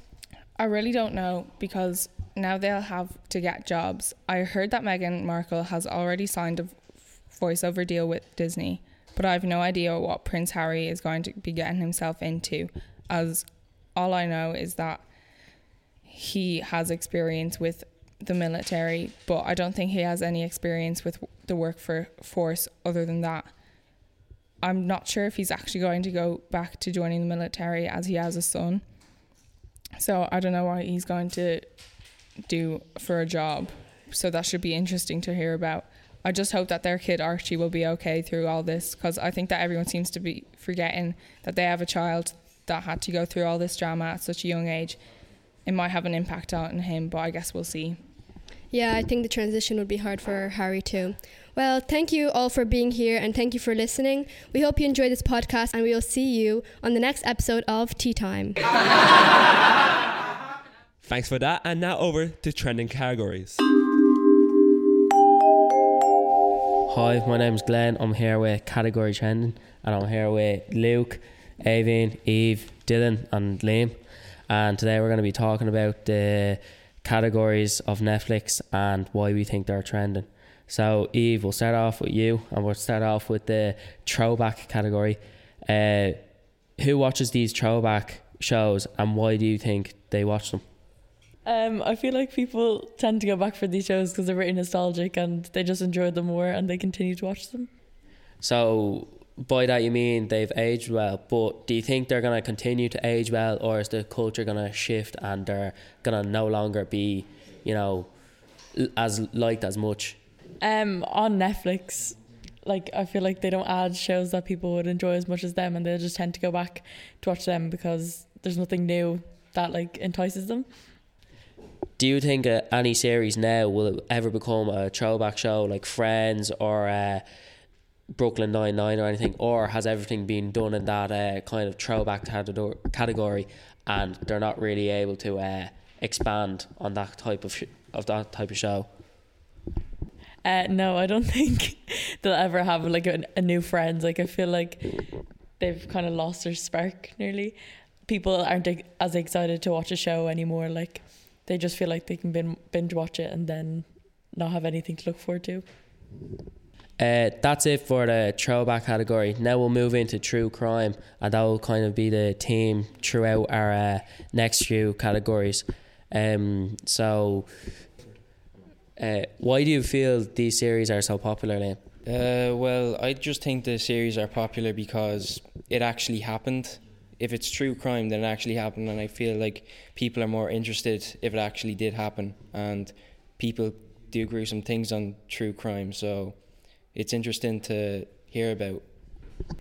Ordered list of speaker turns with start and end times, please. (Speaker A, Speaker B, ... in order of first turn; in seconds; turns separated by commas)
Speaker A: 0.6-6.8, Speaker A: 7.3-13.4, Speaker A: 13.9-15.0, Speaker A: 16.2-23.5, Speaker A: 24.6-28.8, Speaker A: 30.0-31.8, Speaker A: 32.4-45.0, Speaker A: 45.6-48.0, Speaker B: 48.7-58.6, Speaker C: 61.0-63.6, Speaker D: 66.9-74.0, Speaker D: 74.5-86.2, Speaker D: 86.8-90.6, Speaker E: 91.4-97.7, Speaker D: 98.4-110.2, Speaker E: 110.6-121.0, Speaker D: 122.0-127.2, Speaker D: 128.1-138.9, Speaker E: 140.4-155.7, Speaker D: 157.0-167.5, Speaker D: 169.0-171.8, Speaker F: 172.1-189.3